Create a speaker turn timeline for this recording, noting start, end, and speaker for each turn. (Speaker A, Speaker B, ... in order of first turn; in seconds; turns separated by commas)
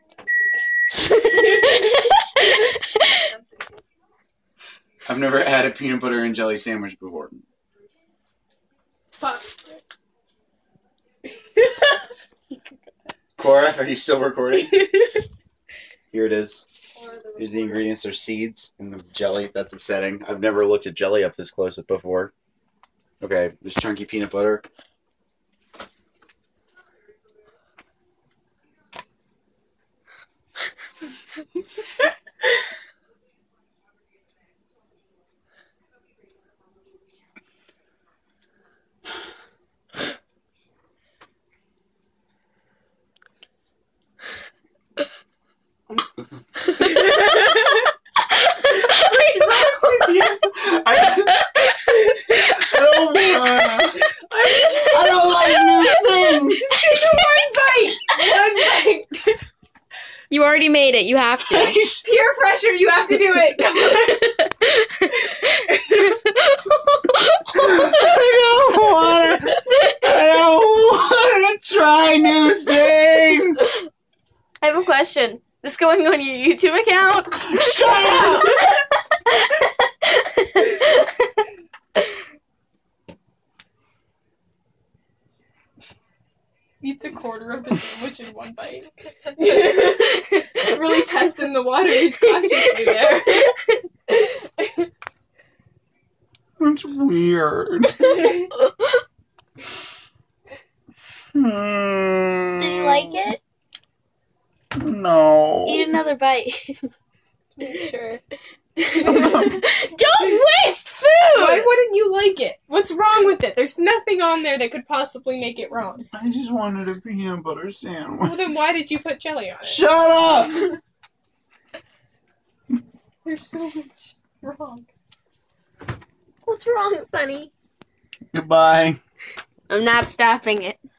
Speaker A: 5.1-7.4, Speaker B: 9.2-9.6, Speaker B: 11.6-11.9, Speaker A: 13.4-14.9, Speaker B: 14.7-15.2, Speaker A: 16.1-16.6, Speaker B: 16.9-17.8, Speaker A: 17.4-22.3, Speaker A: 23.2-24.6, Speaker A: 45.9-46.2, Speaker B: 46.8-47.9, Speaker C: 48.4-50.3, Speaker B: 48.7-50.5, Speaker A: 50.5-51.4, Speaker C: 51.2-51.8, Speaker B: 51.9-52.5, Speaker A: 52.5-54.0, Speaker B: 54.0-59.4, Speaker A: 54.9-56.8, Speaker C: 60.3-61.8, Speaker A: 61.4-62.0, Speaker B: 62.0-64.4, Speaker C: 64.3-64.9, Speaker B: 65.3-66.0, Speaker C: 66.0-68.2, Speaker A: 67.5-73.6, Speaker C: 74.6-78.8, Speaker A: 77.4-78.5, Speaker C: 80.0-80.9, Speaker B: 86.8-94.9, Speaker C: 92.4-93.1, Speaker A: 96.6-98.1, Speaker A: 101.3-103.2, Speaker C: 102.6-103.4, Speaker A: 104.8-105.9, Speaker C: 105.6-106.9, Speaker B: 107.5-108.2, Speaker C: 108.8-111.7, Speaker B: 109.0-109.7, Speaker A: 109.1-109.5, Speaker B: 111.3-116.1, Speaker A: 116.1-118.4, Speaker B: 118.2-119.9, Speaker A: 119.6-120.8, Speaker B: 123.2-124.9, Speaker C: 126.5-127.5, Speaker A: 128.3-129.0, Speaker C: 129.7-130.8